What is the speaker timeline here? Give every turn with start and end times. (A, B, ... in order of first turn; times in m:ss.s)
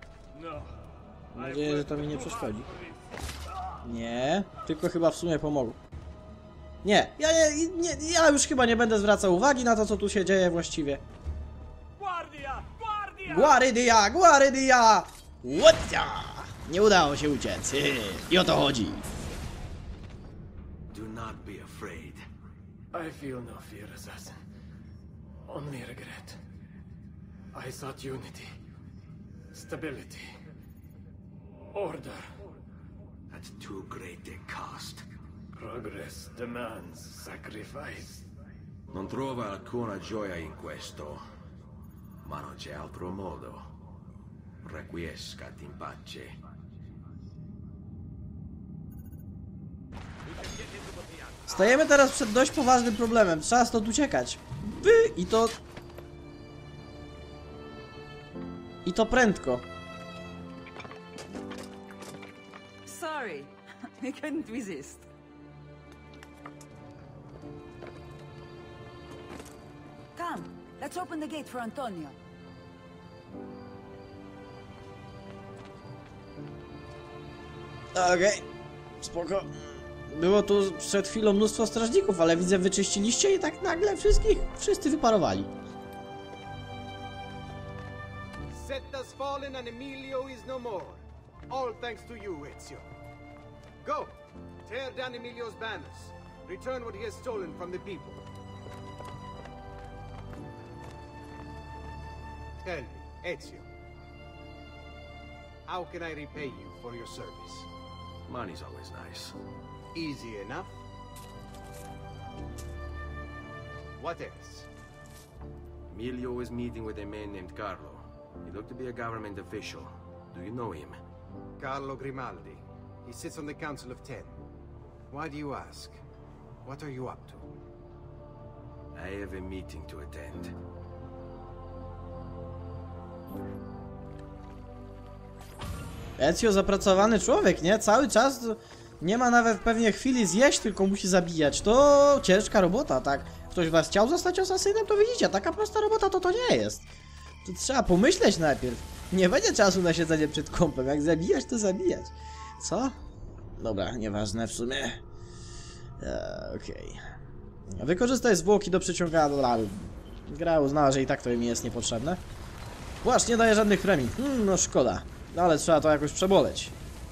0:00.3-0:00.8 A
0:01.3-0:02.7 B
0:01.3-0:03.0 A
0:03.8-0:05.8 B
0:06.8-0:11.0 B
0:12.0-0:13.6 A
0:13.2-0:19.1 B
0:20.9-0:22.2 C
0:22.9-0:24.4 A
0:25.5-0:26.4 A
0:27.5-0:28.5 A
0:29.5-0:30.4 A
0:31.7-0:32.3 A
0:33.3-0:35.0 C
0:35.5-0:38.3 A
0:38.9-0:41.2 C
0:42.2-0:43.7 C
0:44.6-0:46.3 C
0:51.5-0:55.6 B
0:58.8-0:59.6 B
1:02.8-1:05.1 D
1:10.1-1:12.1 D
1:17.9-1:18.5 B
1:19.0-1:25.5 B
1:28.5-1:32.8 E
1:33.8-1:34.1 E
1:34.6-1:38.2 E
1:42.6-1:43.6 E
1:45.7-1:47.7 E
1:48.2-1:49.4 C
1:49.9-1:50.7 E
1:54.0-1:54.7 E
1:55.9-2:01.0 C
2:01.6-2:04.3 E
2:05.1-2:06.0 E
2:06.6-2:07.5 E
2:08.9-2:10.6 C
2:16.2-2:26.8 B
2:27.4-2:33.0 B
2:33.6-2:35.0 B
2:36.0-2:37.0 B
2:37.7-2:42.2 B
2:43.0-2:46.7 B